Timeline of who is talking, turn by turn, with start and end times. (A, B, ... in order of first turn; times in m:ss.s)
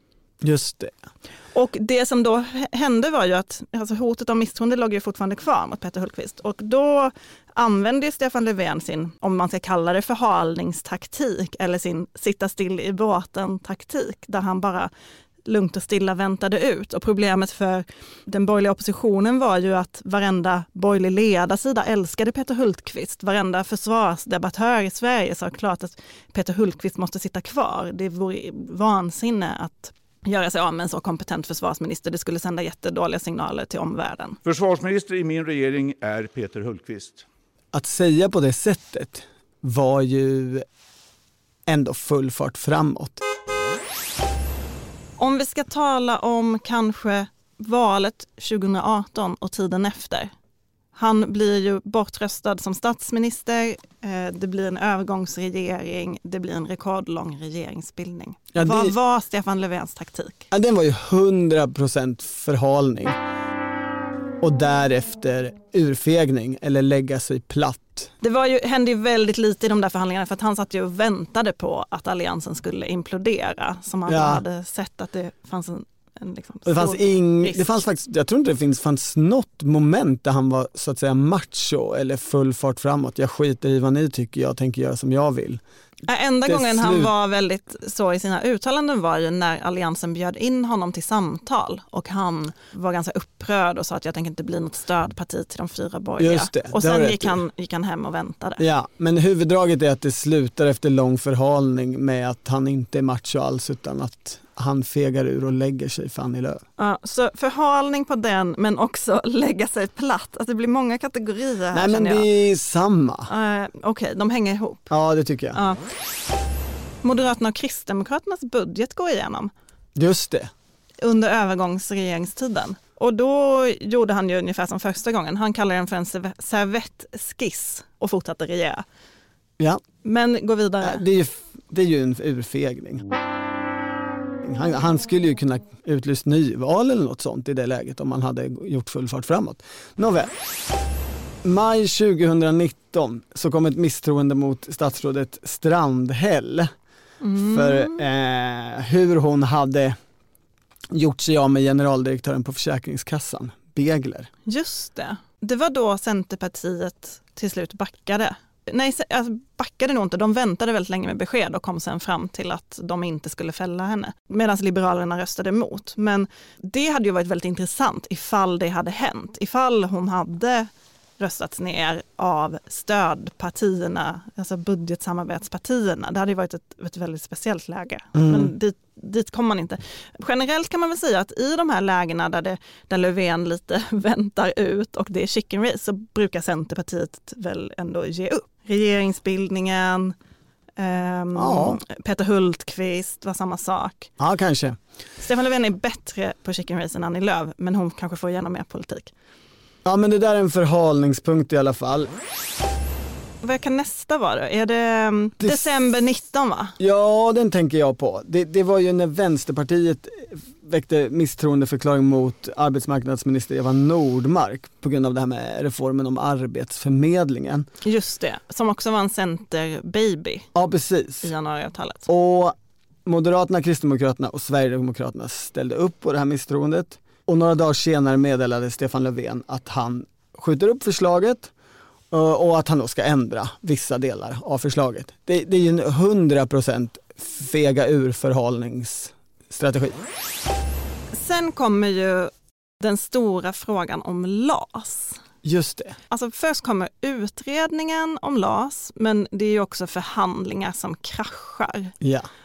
0:00.4-0:01.0 A
0:01.5-0:14.9 B
0:15.5-0:34.4 B
0:34.5-0:37.2 C
0:37.7-0:40.6 A
0:41.7-0:43.2 A
0:45.2-0:50.3 B
0:51.0-1:00.5 B
0:58.5-0:58.9 A
1:00.5-1:03.2 A
1:04.4-1:08.1 A
1:08.2-1:17.8 B
1:14.1-1:14.4 A
1:16.7-1:25.6 A
1:26.1-1:38.6 B
1:26.5-1:27.1 A
1:36.2-1:37.4 A
1:38.6-1:46.6 A
1:46.8-1:52.3 B
1:51.7-1:53.3 A
1:53.3-1:54.9 B
1:54.9-1:55.6 A
1:55.5-1:55.8 B
1:57.0-1:59.5 B
2:00.0-2:00.5 A
2:01.0-2:08.8 B
2:10.0-2:11.0 B
2:10.8-2:13.0 A
2:14.4-2:20.3 A
2:21.4-2:26.7 A
2:27.2-2:28.0 B
2:27.4-2:30.0 A
2:30.9-2:34.3 A
2:34.5-3:10.2 B
2:58.1-2:58.5 A
3:10.8-3:14.1 B
3:11.4-3:11.8 A
3:14.2-3:14.8 A
3:15.2-3:19.1 B
3:19.8-3:22.1 A
3:23.4-3:26.8 B
3:25.4-3:25.8 A
3:26.8-3:37.7 A
3:37.8-3:40.5 B
3:40.6-3:41.3 A
3:41.2-3:42.1 B
3:42.1-3:51.5 A
3:52.1-4:00.0 A
4:01.1-4:05.2 B
4:05.4-4:06.0 A
4:06.1-4:11.9 B
4:12.0-4:12.3 A